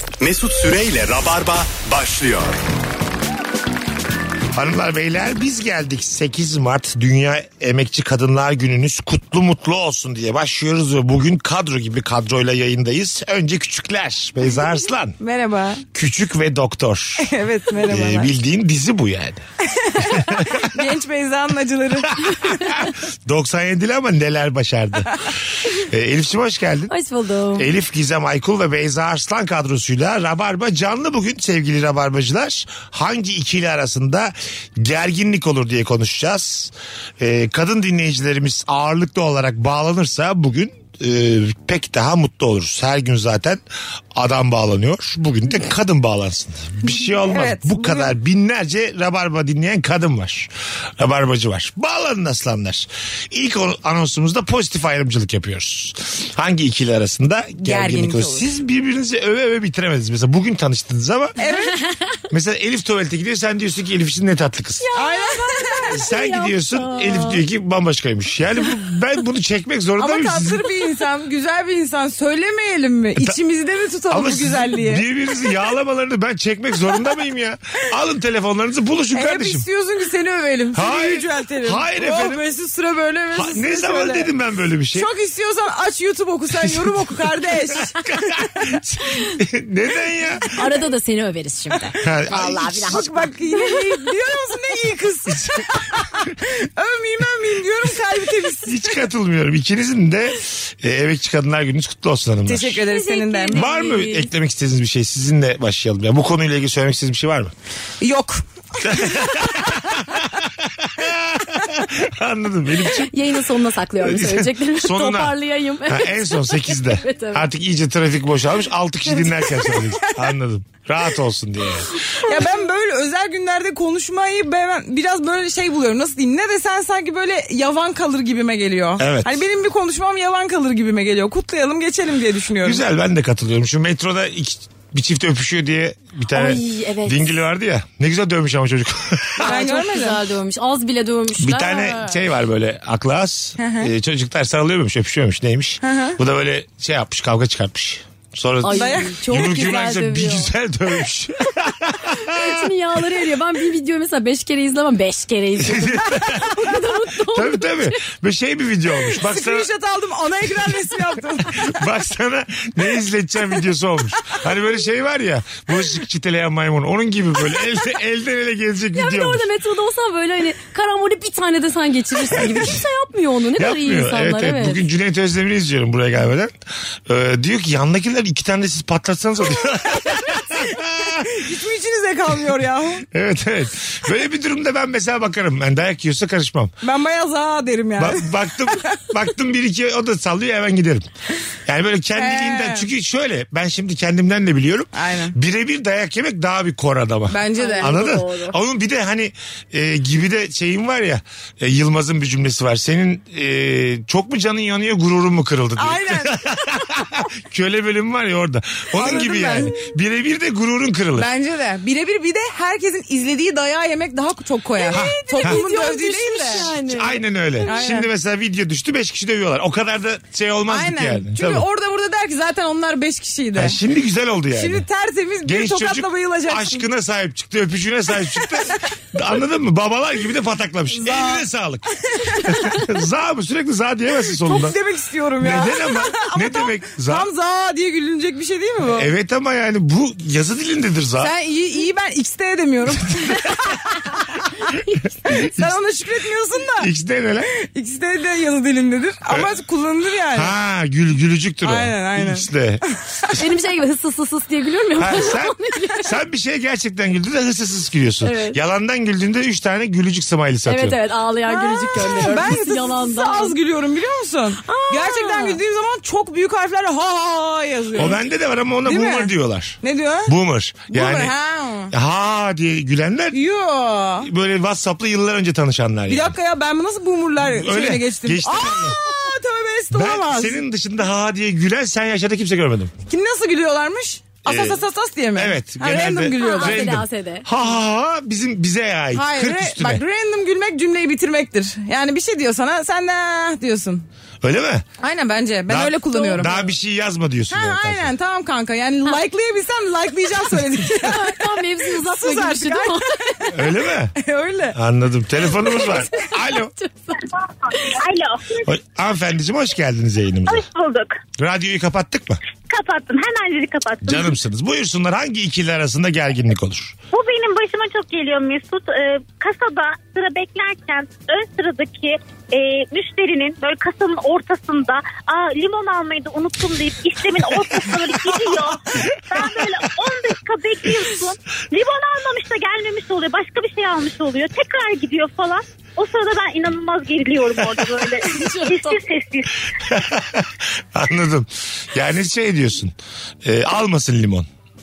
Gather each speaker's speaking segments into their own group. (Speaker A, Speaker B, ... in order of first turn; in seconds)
Speaker A: 0.2-2.6
Speaker B: 4.5-15.2, 15.9-17.3, 17.8-19.4, 20.0-20.7, 23.2-25.2, 25.8-26.9, 27.6-43.6, 44.1-61.3, 62.3-64.8, 65.9-70.7, 74.1-79.7, 80.7-82.4, 83.3-85.1, 86.6-87.0, 87.8-90.5, 92.0-93.1, 98.6-102.8, 103.5-107.5, 108.8-113.1, 114.0-121.9, 129.0-129.3, 132.6-139.5, 141.4-152.7, 155.6-156.5, 157.2-159.7, 161.5-169.5, 172.3-172.7, 173.6-176.5, 177.1-181.3, 183.1-186.7, 188.0-191.1, 191.7-211.3, 214.9-215.6, 216.9-221.7, 223.6-224.8, 225.4-234.8, 235.4-237.3, 238.8-241.3, 246.8-247.5, 250.3-252.8, 255.0-261.0, 267.9-271.3, 271.9-273.4, 274.2-276.4, 277.4-279.0, 279.9-282.9, 284.4-284.8, 285.3-290.0, 294.4-294.9, 295.7-298.1, 303.5-304.1, 304.7-306.7, 308.6-310.6, 311.4-312.4, 314.0-316.9, 339.9-344.5
Speaker C: 15.2-15.8, 17.2-18.3, 19.6-22.8, 47.2-48.1, 57.6-58.4, 61.4-61.8, 64.9-65.9, 70.0-75.0, 79.1-84.3, 84.9-88.5, 92.9-98.9, 102.4-103.6, 108.0-108.9, 122.2-132.8, 139.4-140.2, 143.6-143.9, 145.8-146.2, 148.7-149.2, 159.1-161.8, 180.6-183.0, 186.8-189.0, 192.1-192.9, 194.9-195.3, 197.3-197.9, 205.8-206.5, 209.0-209.7, 211.2-216.7, 217.6-218.1, 220.7-223.8, 224.5-226.8, 230.9-231.4, 232.1-232.6, 234.3-239.1, 241.2-244.6, 245.3-246.9, 247.5-250.5, 251.6-252.9, 261.5-268.2, 268.8-269.3, 269.8-270.3, 270.9-271.9, 273.3-274.3, 276.1-280.6, 283.1-287.0, 289.1-294.0, 295.0-296.6, 297.5-304.8
Speaker D: 26.9-27.7, 64.8-67.4, 90.5-94.1, 102.8-104.3, 113.1-117.4, 119.2-119.8, 136.3-137.3, 139.4-142.2, 148.6-150.5, 152.1-158.0, 168.9-174.8, 197.6-198.6, 209.2-209.6, 214.8-218.0, 253.3-256.1, 258.2-258.6, 260.6-263.6, 264.6-265.6, 286.4-287.4, 296.1-296.4, 300.9-303.4, 305.8-307.2, 338.3-339.0
Speaker E: 307.8-308.7, 310.5-311.2, 312.7-314.3, 317.1-339.7